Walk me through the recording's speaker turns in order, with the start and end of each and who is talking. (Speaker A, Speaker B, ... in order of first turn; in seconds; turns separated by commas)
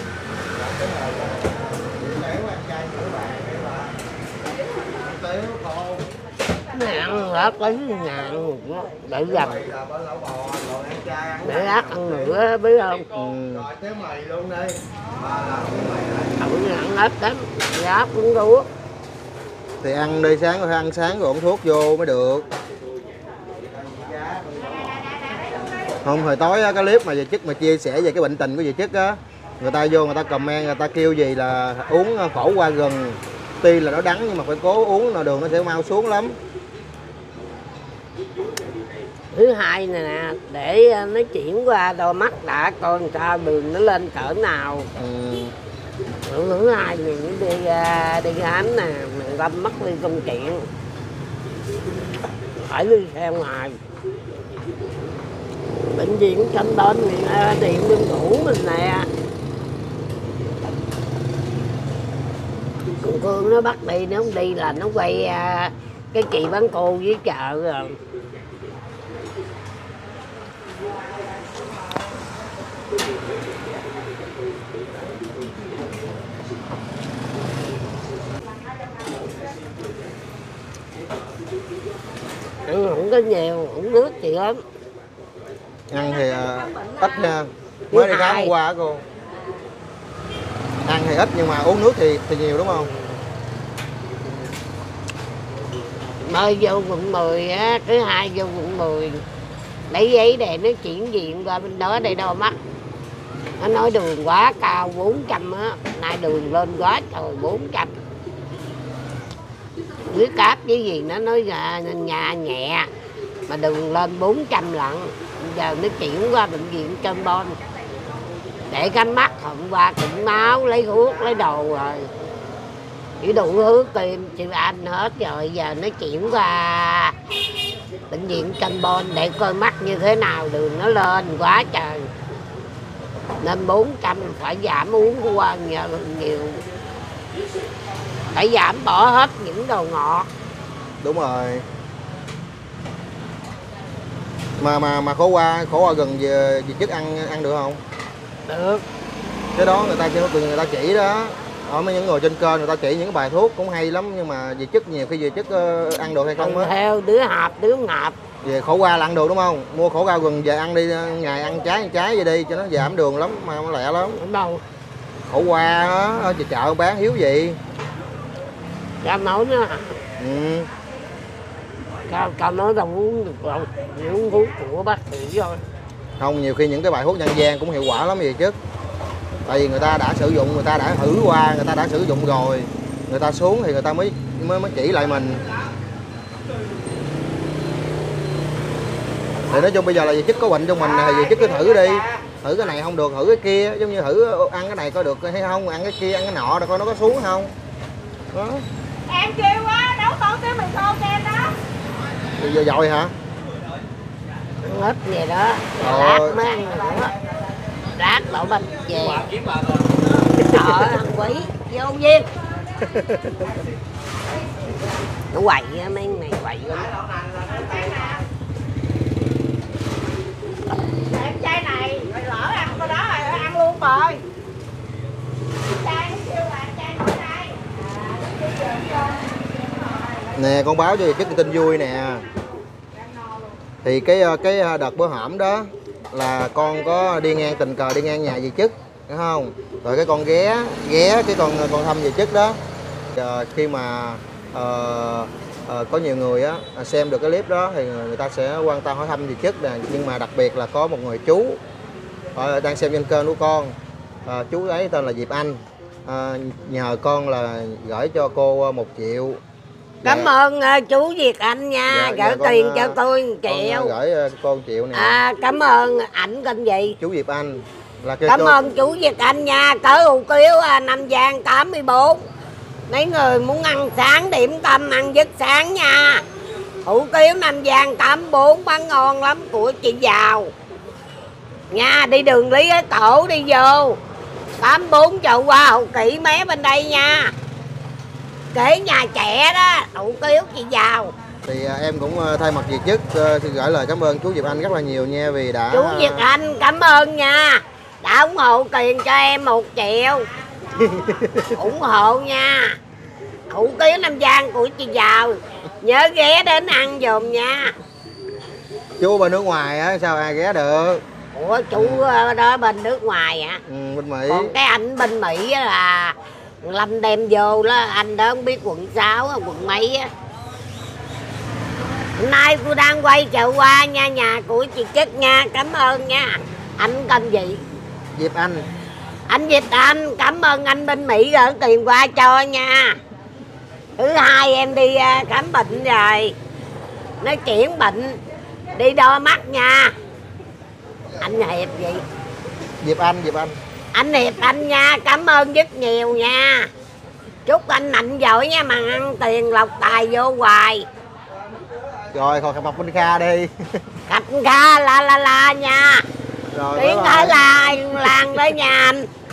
Speaker A: 0.6-3.9, Speaker A: 5.0-6.0, Speaker B: 6.7-9.7, Speaker A: 9.4-12.2, Speaker B: 11.4-13.1, Speaker A: 13.1-15.8, Speaker B: 16.4-18.7, Speaker A: 19.8-22.4, Speaker A: 26.0-36.4, Speaker B: 39.3-44.9, Speaker A: 45.0-45.5, Speaker B: 46.2-50.7, Speaker B: 52.5-53.8, Speaker B: 55.9-59.1, Speaker B: 63.0-68.0, Speaker B: 82.6-84.6, Speaker A: 85.9-89.0, Speaker B: 87.9-88.5, Speaker A: 90.8-92.9, Speaker B: 96.2-99.2, Speaker B: 99.9-102.5, Speaker B: 103.6-107.9, Speaker B: 110.1-112.9, Speaker B: 113.5-117.6, Speaker B: 118.7-122.1, Speaker B: 123.2-127.1, Speaker B: 128.1-132.1, Speaker B: 133.4-136.6, Speaker B: 138.3-140.3, Speaker A: 141.0-141.7, Speaker A: 144.6-147.8, Speaker B: 148.5-148.8, Speaker A: 149.5-156.7, Speaker B: 156.4-158.2, Speaker A: 158.4-164.2, Speaker B: 164.2-164.6, Speaker A: 165.2-167.6, Speaker B: 169.0-170.0, Speaker A: 170.2-170.7, Speaker B: 172.1-175.6, Speaker A: 176.2-178.6, Speaker A: 179.5-185.4, Speaker A: 189.5-197.5, Speaker A: 198.3-198.7, Speaker C: 199.1-201.5, Speaker A: 202.4-203.1, Speaker B: 204.6-207.1, Speaker A: 205.8-206.4, Speaker B: 207.9-209.3, Speaker B: 210.4-212.3, Speaker A: 210.5-211.0, Speaker A: 212.8-213.5, Speaker B: 215.3-216.9, Speaker C: 221.2-224.2, Speaker B: 221.3-222.1, Speaker B: 226.0-227.5, Speaker A: 230.3-232.2, Speaker A: 233.8-242.6, Speaker A: 243.1-251.6, Speaker A: 252.3-253.7, Speaker A: 254.2-259.4, Speaker A: 260.0-260.3, Speaker B: 260.0-263.9, Speaker A: 261.9-262.9, Speaker A: 263.5-265.2, Speaker B: 264.9-267.0, Speaker A: 267.0-268.6, Speaker B: 268.3-272.2, Speaker B: 272.9-276.2, Speaker B: 276.8-280.5, Speaker B: 281.7-284.0, Speaker B: 284.6-287.3, Speaker B: 288.5-291.1, Speaker A: 291.4-296.3, Speaker B: 295.7-300.3, Speaker A: 300.7-301.5, Speaker B: 301.6-302.8, Speaker B: 303.5-307.7, Speaker A: 309.0-311.0, Speaker B: 311.3-313.6, Speaker A: 311.7-312.1, Speaker A: 313.7-314.6, Speaker B: 314.3-320.1, Speaker B: 322.2-327.6, Speaker A: 328.1-328.6, Speaker B: 329.3-333.0, Speaker B: 334.0-336.3, Speaker B: 337.2-338.2, Speaker B: 338.7-339.9, Speaker B: 341.2-342.0, Speaker A: 342.8-343.6, Speaker B: 343.9-346.7, Speaker B: 347.4-350.9, Speaker A: 352.1-353.5, Speaker B: 354.1-356.0, Speaker A: 356.5-358.3, Speaker B: 356.7-359.1